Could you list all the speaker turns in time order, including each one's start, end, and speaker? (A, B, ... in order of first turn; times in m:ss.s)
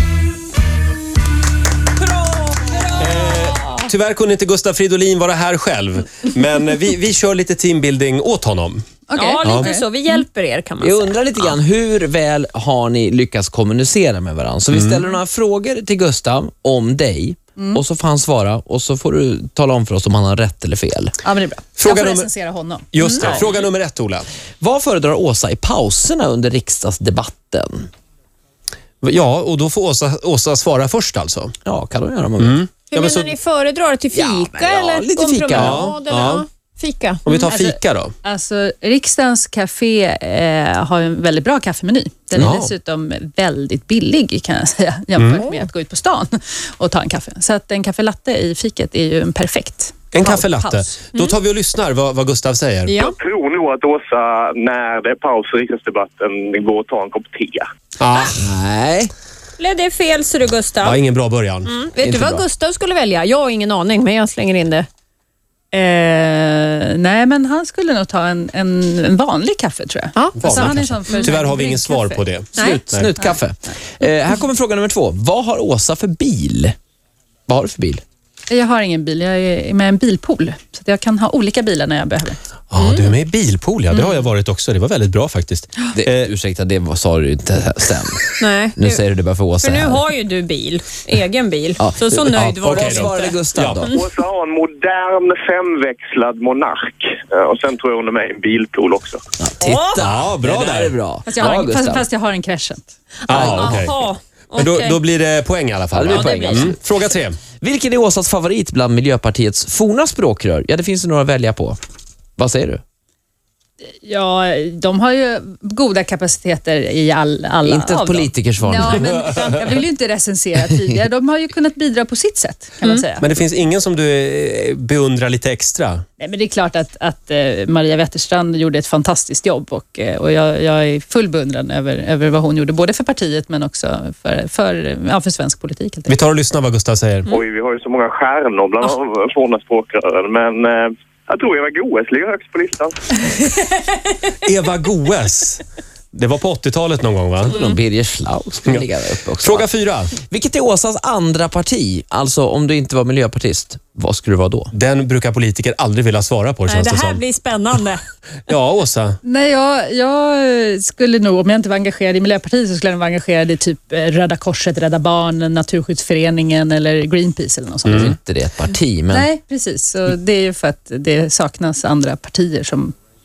0:02.0-0:03.9 A
0:03.0-0:08.8 B
0:09.1-0:09.9 C
0:09.2-0:11.1 A
0:09.4-0:09.7 B
0:10.8-0:21.1 D
0:14.7-0:15.0 B
0:17.6-0:17.8 C
0:21.2-0:23.5 C
0:21.8-0:22.3 B
0:22.9-0:24.3 B
0:24.6-0:27.9 D
0:29.0-0:31.5 B
0:31.6-0:32.6 D
0:32.4-0:33.3 B
0:32.9-0:37.2 A
0:34.1-0:35.9 D
0:35.5-0:36.4 B
0:37.2-0:38.1 B
0:37.5-0:51.0 C
0:42.4-0:42.7 B
0:45.2-0:45.4 B
0:50.1-0:53.1 B
0:52.9-0:53.1 A
0:53.0-0:57.7 E
0:58.0-0:58.4 B
0:58.4-0:59.1 D
0:59.6-1:01.0 A
1:00.8-1:01.7 B
1:01.6-1:04.9 A
1:02.0-1:02.4 D
1:05.7-1:12.2 C
1:10.2-1:11.3 A
1:10.4-1:13.1 B
1:12.6-1:12.8 A
1:12.6-1:16.7 D
1:17.5-1:18.0 D
1:18.5-1:22.4 C
1:22.7-1:26.2 B
1:22.8-1:23.1 A
1:25.9-1:30.0 D
1:28.4-1:29.0 A
1:29.6-1:33.4 A
1:31.8-1:33.9 D
1:32.6-1:33.9 B
1:33.9-1:39.2 E
1:39.4-1:42.1 D
1:39.6-1:40.0 A
1:40.0-1:40.9 B
1:41.2-1:43.0 C
1:43.3-1:44.0 B
1:43.3-1:45.0 A
1:44.5-1:47.4 B
1:45.9-1:46.8 D
1:46.1-1:46.4 E
1:46.1-1:46.7 A
1:47.6-1:51.8 D
1:52.4-1:52.8 D
1:54.0-2:03.3 C
1:57.6-1:59.3 D
1:58.8-1:59.0 A
2:03.2-2:06.0 B
2:06.2-2:16.2 C
2:16.1-2:17.4 B
2:17.3-2:23.1 E
2:24.4-2:25.6 B
2:26.1-2:27.6 B
2:27.5-2:34.7 D
2:27.5-2:27.8 A
2:29.4-2:30.1 B
2:34.7-2:37.2 B
2:36.7-2:38.0 A
2:38.5-2:39.2 B
2:39.2-2:48.2 C
2:47.8-2:49.3 D
2:49.1-2:52.9 C